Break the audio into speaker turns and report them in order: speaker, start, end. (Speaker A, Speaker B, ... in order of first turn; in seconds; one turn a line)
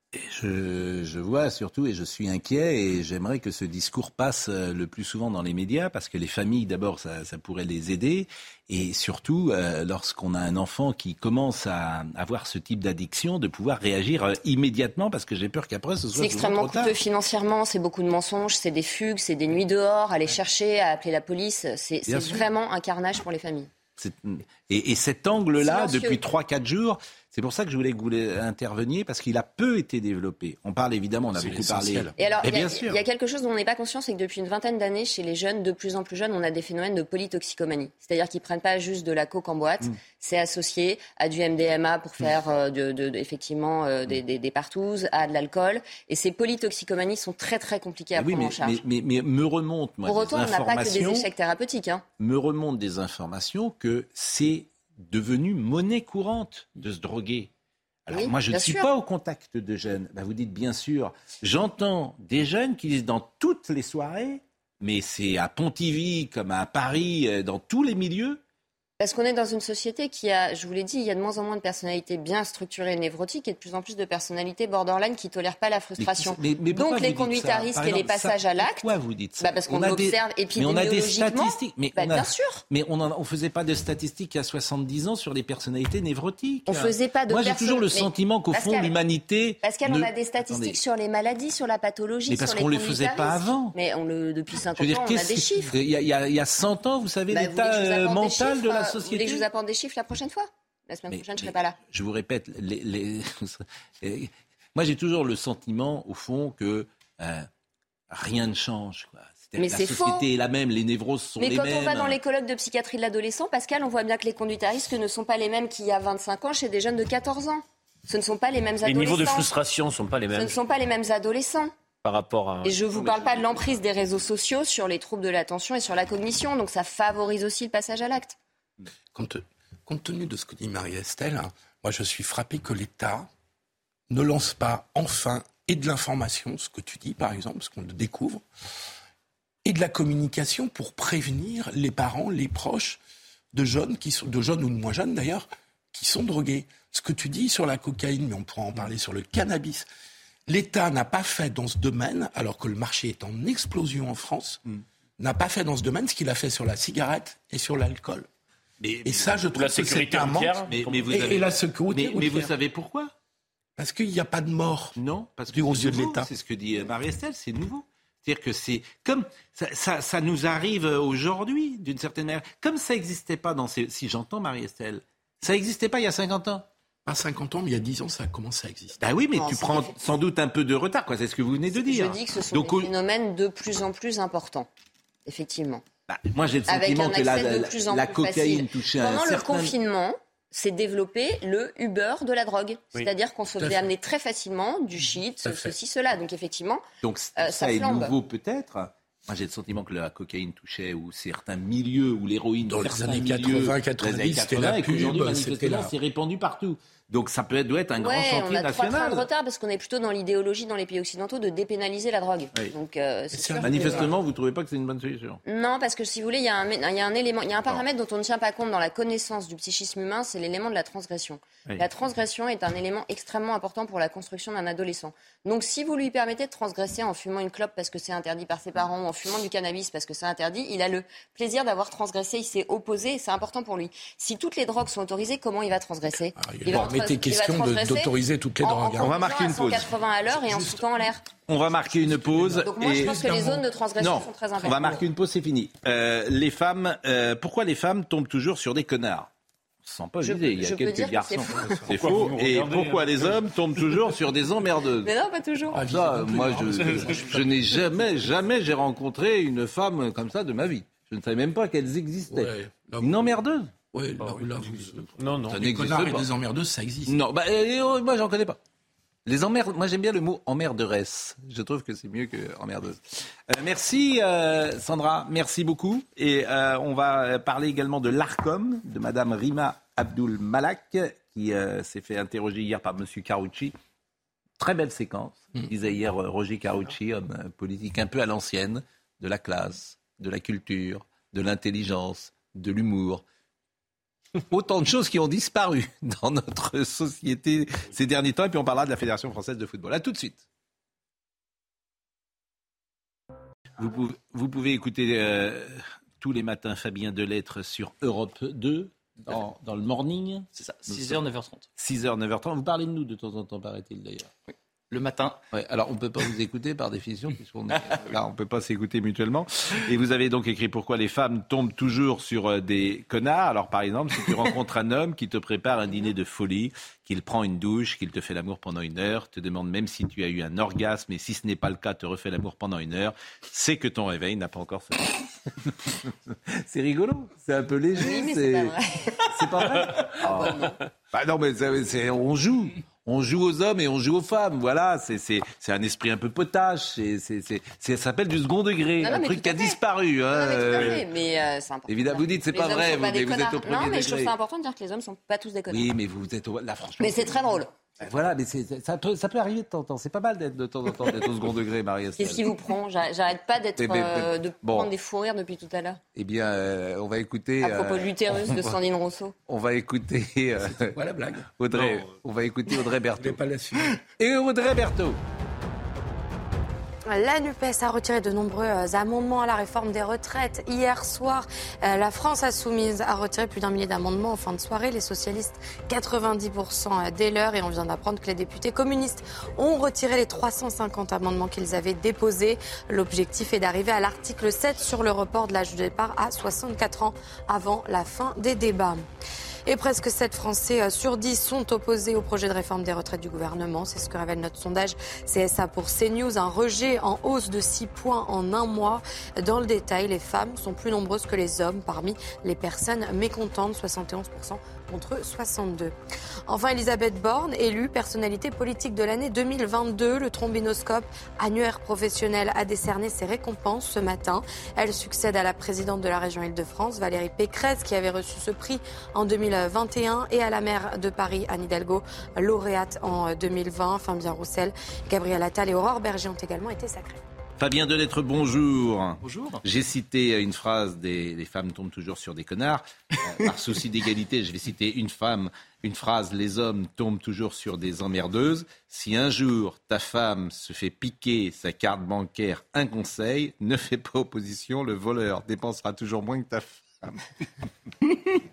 Speaker A: 0.1-16.9
Speaker B: 16.2-23.7
Speaker A: 22.1-22.5
Speaker A: 24.0-33.0
Speaker B: 25.6-26.2
Speaker C: 31.4-32.1
Speaker B: 32.2-48.8
Speaker A: 48.1-51.3
Speaker B: 50.1-52.0
Speaker A: 52.2-57.5
Speaker A: 58.1-68.4
Speaker B: 58.1-58.9
Speaker B: 69.0-78.9
Speaker A: 76.0-90.8
Speaker B: 79.4-82.6
Speaker B: 86.7-88.9
Speaker B: 89.6-95.8
Speaker A: 92.3-93.7
Speaker A: 94.8-99.5
Speaker B: 97.3-101.8
Speaker A: 101.1-107.5
Speaker A: 108.1-112.2
Speaker B: 109.6-110.2
Speaker B: 111.4-119.5
Speaker D: 118.8-120.6
Speaker B: 120.3-121.7
Speaker D: 122.0-123.1
Speaker B: 122.6-128.4
Speaker A: 123.0-123.6
Speaker C: 129.1-133.3
Speaker C: 134.1-138.4
Speaker C: 139.7-143.0
Speaker C: 143.5-149.9
Speaker C: 150.5-154.6
Speaker C: 155.2-158.3
Speaker A: 158.8-159.7
Speaker C: 159.0-162.5
Speaker D: 159.5-160.9
Speaker A: 160.6-163.1
Speaker C: 163.8-165.0
Speaker A: 165.0-176.7
Speaker C: 165.5-166.3
Speaker C: 177.1-179.0
Speaker A: 179.0-182.9
Speaker B: 179.3-180.0
Speaker B: 181.7-184.7
Speaker B: 185.3-185.8
Speaker A: 186.1-189.7
Speaker B: 186.7-196.8
Speaker C: 193.6-193.9
Speaker C: 195.4-195.8
Speaker A: 197.0-209.3
Speaker B: 197.4-198.1
Speaker C: 202.7-205.9
Speaker B: 208.0-214.1
Speaker C: 213.3-214.1
Speaker A: 213.6-215.4
Speaker B: 215.4-241.2
Speaker C: 236.3-239.5
Speaker A: 239.0-239.9
Speaker A: 241.5-249.3
Speaker C: 242.3-243.5
Speaker B: 242.6-245.0
Speaker A: 249.8-255.1
Speaker B: 250.2-251.8
Speaker C: 251.5-252.1
Speaker D: 251.9-253.3
Speaker B: 255.0-255.8
Speaker C: 255.7-257.8
Speaker A: 255.8-263.7
Speaker C: 262.3-263.3
Speaker C: 263.9-267.1
Speaker A: 264.2-266.3
Speaker D: 265.2-265.6
Speaker A: 267.1-268.6
Speaker A: 269.3-283.8
Speaker A: 284.6-293.2
Speaker A: 294.5-300.4
Speaker A: 303.8-311.2
Speaker E: 310.6-311.7
Speaker A: 311.8-314.3
Speaker E: 314.9-315.4
Speaker A: 315.5-338.7
Speaker B: 338.0-339.3
Speaker A: 339.3-351.1
Speaker B: 340.2-340.8
Speaker B: 349.0-349.8
Speaker B: 350.3-355.9
Speaker A: 351.9-354.3
Speaker A: 355.7-362.6
Speaker B: 357.0-357.7
Speaker B: 362.2-366.0
Speaker A: 363.8-364.9
Speaker A: 366.1-368.8
Speaker B: 367.6-369.4
Speaker A: 369.5-371.0
Speaker C: 370.7-372.0
Speaker A: 371.5-373.4
Speaker C: 373.2-374.0
Speaker A: 374.0-375.2
Speaker F: 377.1-399.0
Speaker F: 399.7-415.9
Speaker F: 416.5-437.2
Speaker A: 437.6-457.2
Speaker E: 439.2-439.6